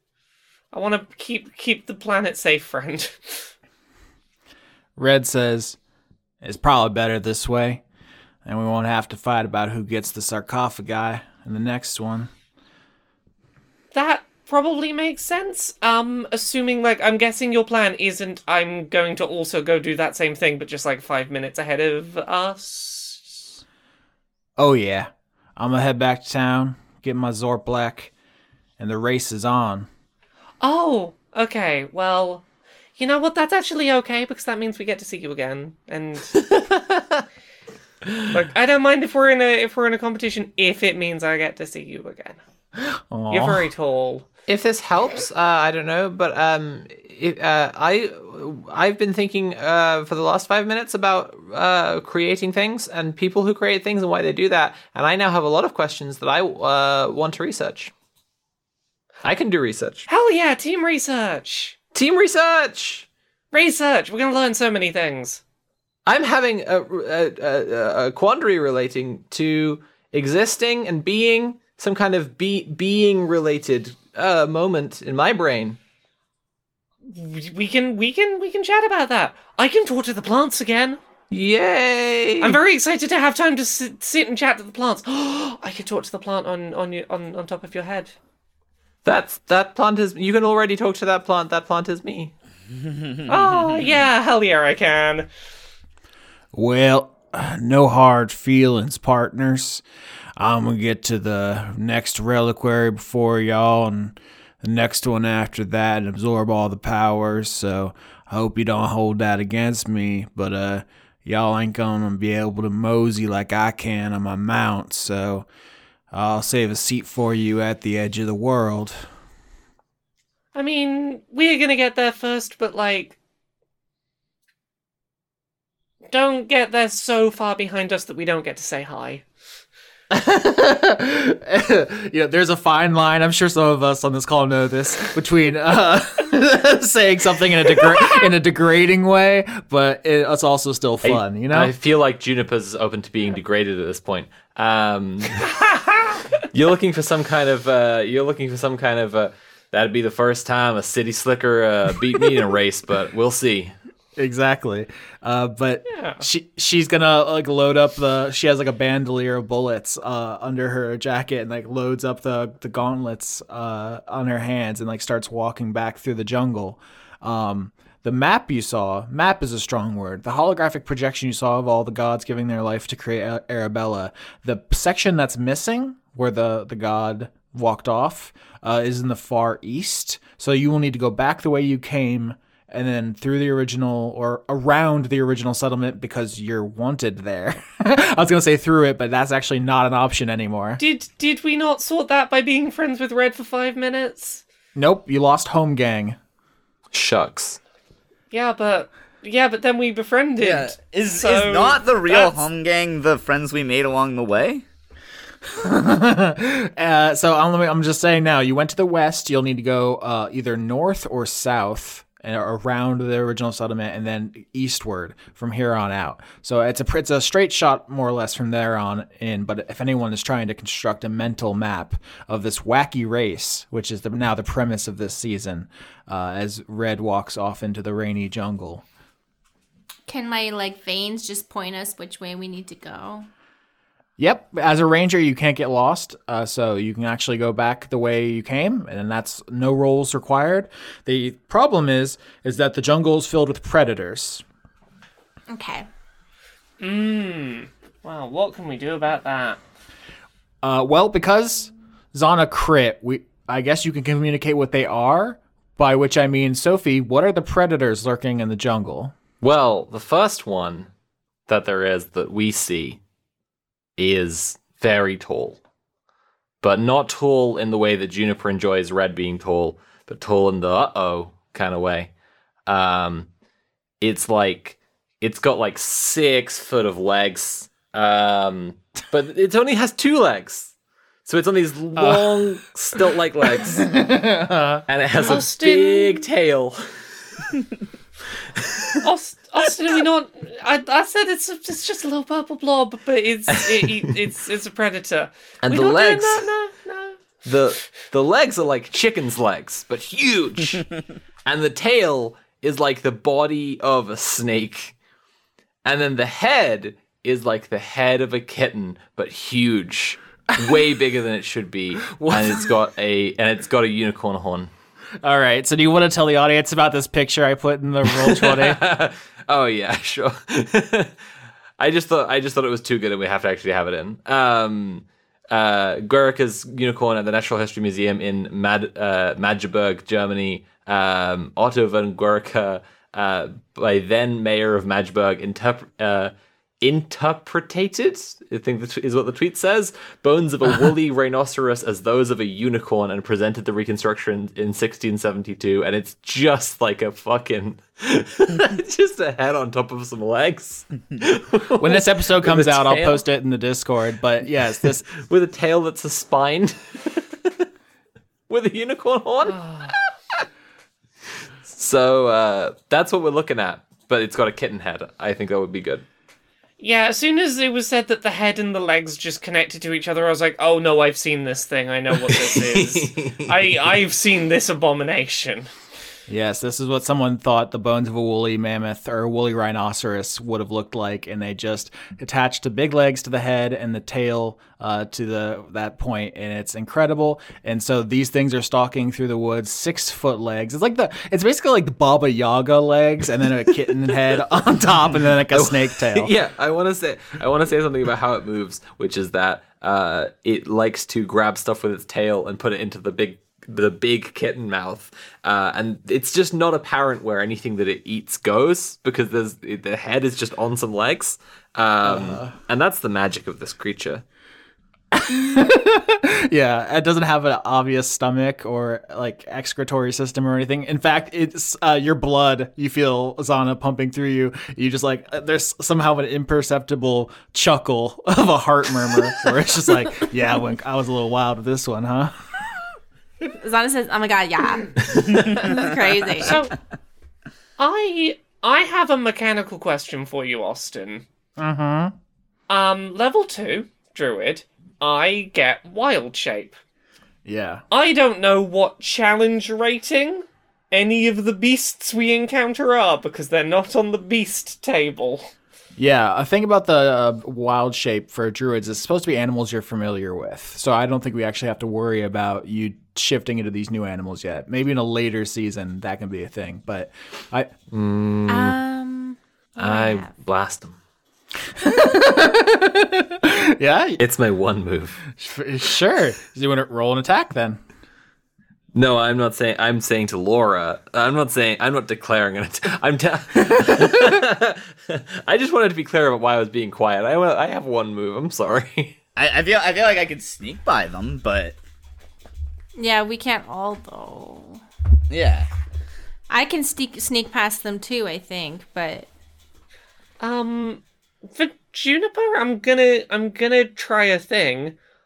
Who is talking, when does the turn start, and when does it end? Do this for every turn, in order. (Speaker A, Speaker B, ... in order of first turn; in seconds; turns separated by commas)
Speaker A: 0.7-3.5, Speaker B: 5.0-5.8, Speaker B: 6.4-7.8, Speaker B: 8.4-12.3, Speaker A: 13.9-23.6, Speaker B: 24.6-28.1, Speaker B: 28.8-29.9, Speaker A: 30.6-32.4, Speaker A: 33.0-36.4, Speaker C: 36.4-37.2, Speaker A: 38.3-42.4, Speaker B: 42.8-43.7, Speaker A: 43.3-44.2, Speaker C: 44.5-57.9, Speaker C: 59.2-60.1, Speaker A: 60.1-61.8, Speaker C: 61.9-63.1, Speaker A: 63.5-65.4, Speaker C: 66.0-75.8, Speaker A: 77.0-81.0, Speaker C: 81.3-82.6, Speaker A: 82.4-88.1, Speaker C: 89.0-92.3, Speaker A: 93.3-95.3, Speaker B: 96.5-99.8, Speaker B: 100.4-115.5, Speaker B: 116.1-119.1, Speaker A: 120.5-123.2, Speaker A: 126.1-129.2, Speaker B: 130.1-141.7, Speaker C: 141.0-145.5, Speaker A: 145.7-146.2, Speaker C: 146.4-153.7, Speaker B: 154.2-190.8, Speaker A: 155.9-156.2, Speaker A: 190.8-194.4, Speaker B: 194.7-196.2, Speaker C: 196.9-197.6, Speaker A: 198.3-202.4, Speaker D: 200.4-204.6, Speaker B: 205.5-228.8, Speaker E: 230.1-233.3, Speaker B: 234.2-244.4, Speaker E: 245.5-245.8, Speaker A: 246.8-249.6, Speaker B: 250.6-259.1, Speaker C: 259.4-260.9, Speaker C: 261.5-263.0, Speaker C: 264.0-265.6, Speaker C: 266.6-272.1, Speaker C: 272.7-273.3, Speaker C: 274.0-280.7, Speaker C: 281.2-283.9, Speaker B: 281.9-282.6, Speaker B: 283.5-284.8, Speaker C: 284.9-287.5, Speaker A: 285.2-286.2, Speaker C: 288.6-288.9, Speaker A: 289.0-297.2, Speaker C: 295.6-296.5, Speaker C: 297.4-300.9, Speaker C: 301.4-304.9, Speaker C: 305.8-314.7, Speaker B: 312.1-312.7, Speaker B: 315.2-318.8, Speaker C: 318.1-321.1, Speaker C: 321.8-353.2, Speaker B: 351.8-355.1, Speaker C: 355.1-357.7, Speaker C: 358.5-359.9, Speaker A: 359.4-359.9, Speaker C: 361.7-366.0, Speaker A: 366.8-375.7, Speaker C: 372.1-373.8, Speaker B: 376.3-396.3, Speaker C: 395.5-414.2, Speaker B: 412.0-412.5, Speaker B: 415.1-432.3, Speaker E: 433.6-436.5, Speaker C: 435.1-435.4, Speaker A: 436.4-436.7, Speaker A: 437.8-441.2, Speaker B: 441.6-442.1, Speaker A: 442.7-446.8, Speaker B: 447.4-447.8, Speaker A: 447.9-455.5, Speaker B: 456.0-467.7, Speaker C: 467.9-468.8, Speaker E: 468.5-470.3, Speaker C: 469.8-471.0, Speaker B: 471.8-474.2, Speaker C: 474.2-475.2, Speaker B: 475.3-477.8, Speaker C: 478.9-489.1, Speaker B: 483.6-484.4, Speaker D: 489.4-491.8, Speaker E: 492.9-494.8, Speaker D: 495.3-495.7, Speaker E: 496.5-499.3, Speaker A: 500.4-504.9